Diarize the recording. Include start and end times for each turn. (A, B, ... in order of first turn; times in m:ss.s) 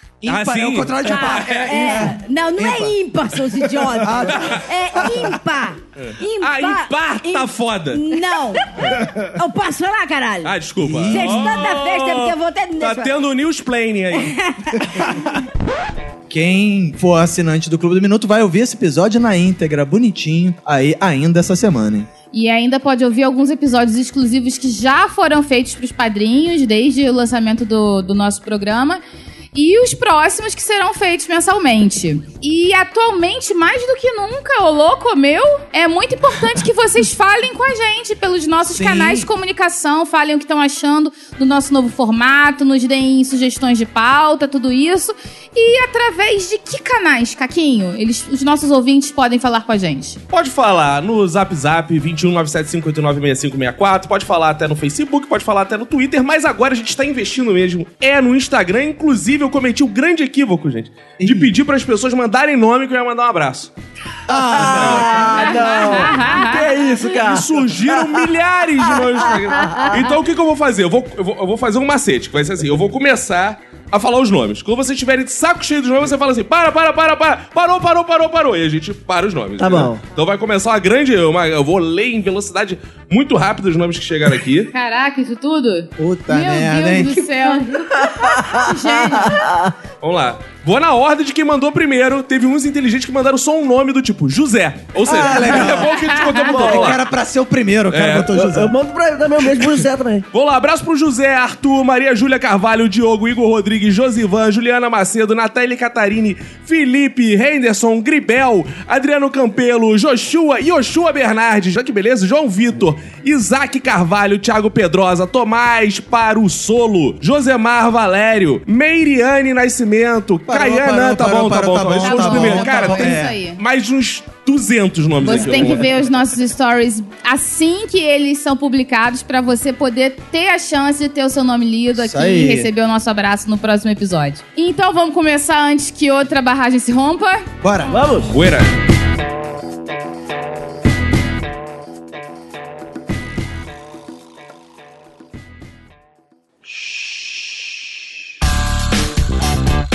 0:00.2-0:02.9 A
0:00.2-0:02.1 B
0:01.0-0:10.5 C
0:03.8-0:05.4 A
0:04.3-0:04.6 B
0:06.0-0:08.2 B
0:08.9-0:09.2 A
0:10.4-0:14.4 B
0:10.8-0:11.6 A
0:11.1-0:13.2 C
0:14.1-0:14.8 C
0:14.9-0:15.4 A
0:16.3-0:22.1 A
0:22.3-0:29.0 D
0:29.5-0:50.2 D
0:38.7-0:39.3 A
0:50.3-1:03.7 B
1:01.2-1:01.5 A
1:04.3-1:06.1 A
1:04.3-1:08.2 E
1:04.6-1:05.2 B
1:05.4-1:06.7 D
1:07.1-1:24.7 B
1:08.8-1:10.0 E
1:19.6-1:20.0 E
1:24.7-1:29.4 D
1:26.0-1:27.2 A
1:28.0-1:29.7 E
1:30.0-1:37.0 B
1:35.0-1:35.9 A
1:35.3-1:35.8 E
1:35.8-1:36.5 D
1:36.5-1:38.8 A
1:36.5-1:37.0 E
1:37.9-1:38.4 B
1:38.3-1:40.2 E
1:40.3-2:06.1 B
2:00.5-2:03.4 A
2:02.0-2:03.6 D
2:05.2-2:17.5 D
2:12.0-2:12.7 A
2:17.6-2:18.0 A
2:17.9-2:18.3 E
2:18.2-2:18.7 B